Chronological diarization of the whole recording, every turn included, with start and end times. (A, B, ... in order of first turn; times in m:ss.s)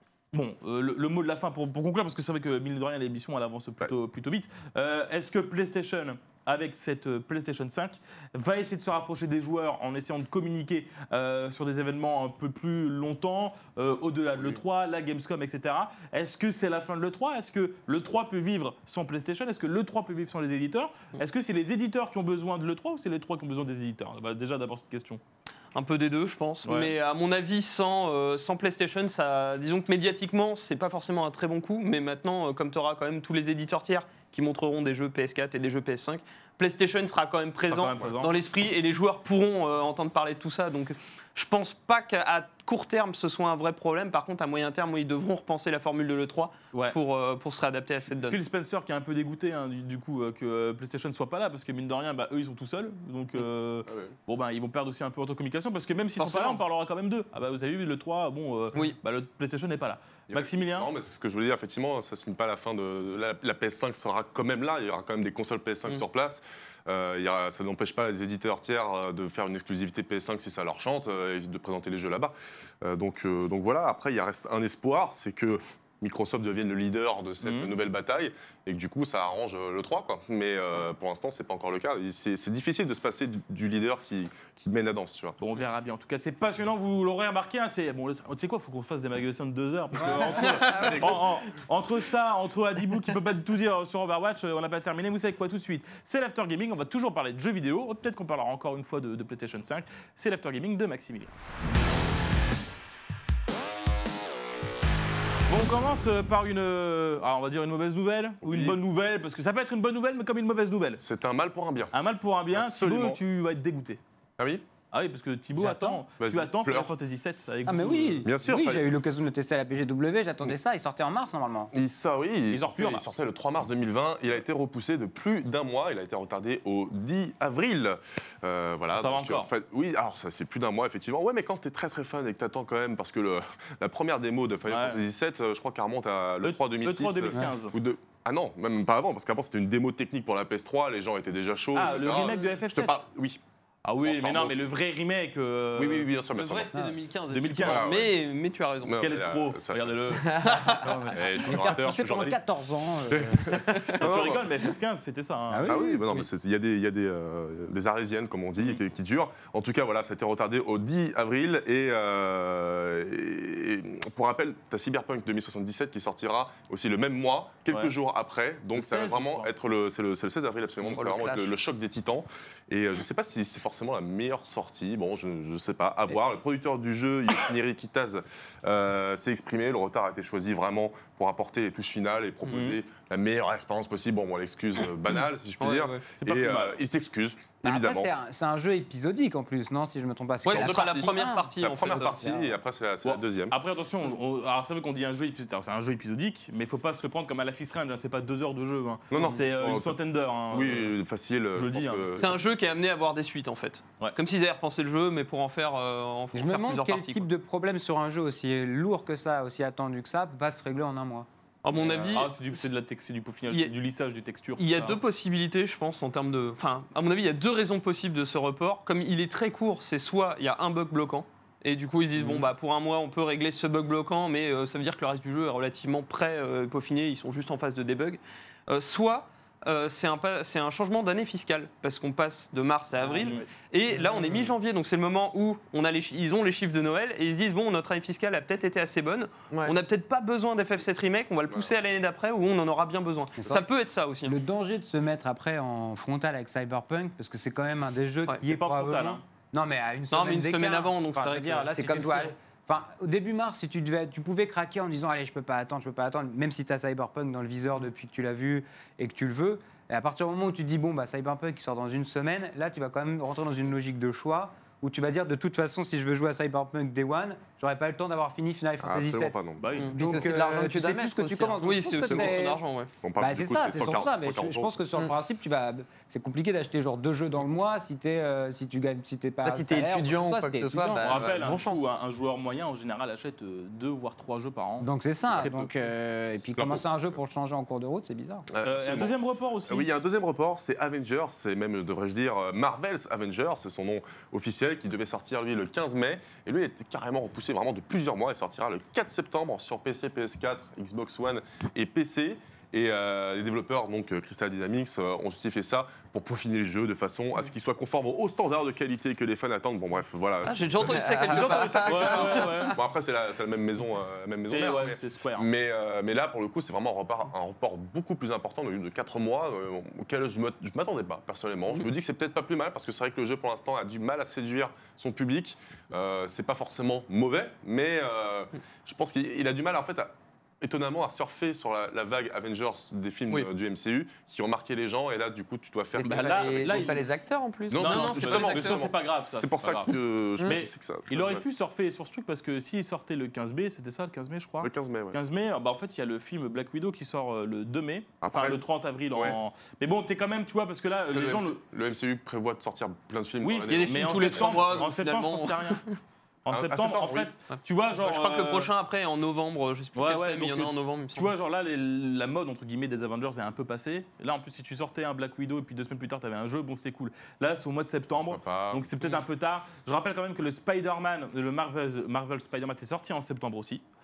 0:00.3-0:25.2 A
0:25.7-0:48.4 B
0:26.6-0:26.9 A
0:37.7-0:38.3 A
0:48.2-1:00.9 A
0:53.9-0:54.1 C
0:56.2-0:56.6 B
1:00.3-1:25.4 C
1:17.4-1:17.7 A
1:25.4-1:41.3 A
1:30.0-1:31.2 C
1:45.5-1:51.0 A
1:48.4-1:48.8 C
1:51.0-1:51.9 C
1:51.9-1:54.0 A
1:52.5-1:53.2 C
1:54.4-1:54.6 C
1:54.9-1:58.3 A
1:55.6-1:56.0 D
1:56.2-1:56.9 C
1:57.7-2:01.7 D
1:58.2-1:58.9 C
2:01.7-2:23.4 C
2:02.5-2:03.1 A
2:08.9-2:09.5 A
2:14.7-2:15.0 A
2:16.4-2:17.8 A
2:21.7-2:23.0 A
2:23.8-2:26.1 A
2:24.0-2:24.6 C
2:25.8-2:26.7 C
2:26.3-2:29.0 B
2:27.3-2:27.9 A
2:27.6-2:28.2 C
2:28.8-2:30.4 C
2:29.0-2:31.2 A
2:30.2-2:31.2 B
2:31.1-2:32.4 C
2:31.4-2:33.6 D
2:33.1-2:34.5 C
2:33.5-2:35.8 A
2:35.5-2:36.1 D
2:35.7-3:08.1 C
2:48.8-2:49.5 A
2:50.9-2:51.5 E
3:02.5-3:02.8 A
3:05.6-3:06.0 B
3:06.2-3:06.8 A
3:07.6-3:12.6 D
3:10.4-3:12.2 B
3:10.5-3:13.6 C
3:13.0-3:21.0 A
3:19.1-3:20.0 C
3:20.5-3:22.4 C
3:21.6-3:22.3 A
3:22.2-3:27.2 B
3:26.3-3:31.3 D
3:31.6-3:32.4 B
3:31.8-3:35.0 A
3:34.6-4:04.4 B
3:42.2-3:42.4 A
3:53.0-3:53.3 E
3:59.5-3:59.8 E
4:03.4-4:03.7 D
4:04.2-4:32.6 D
4:08.5-4:09.2 A
4:10.1-4:12.3 B
4:28.8-4:29.8 C
4:29.6-4:30.0 A
4:29.9-4:31.6 E
4:31.6-4:32.9 B
4:33.0-4:34.7 C
4:33.2-4:41.2 D
4:39.4-4:41.9 E
4:41.0-4:45.5 A
4:44.8-4:48.5 D
4:46.6-4:46.8 C
4:48.5-4:49.1 C
4:48.6-4:49.9 A
4:49.7-5:36.9 C
5:10.4-5:12.6 B
5:10.9-5:12.7 E
5:11.3-5:12.8 A
5:14.5-5:15.5 A
5:36.0-5:38.6 E
5:36.0-5:37.1 A
5:37.7-5:41.4 C
5:37.8-5:51.6 A
5:37.9-5:38.9 B
5:44.6-5:45.2 C
5:48.2-5:48.6 C
5:51.1-5:54.9 C
5:53.4-5:55.8 A
5:53.7-5:56.0 B
5:56.4-5:58.7 A
5:56.5-5:57.3 C
5:57.5-6:01.3 B
6:00.0-6:13.8 A
6:08.2-6:08.9 C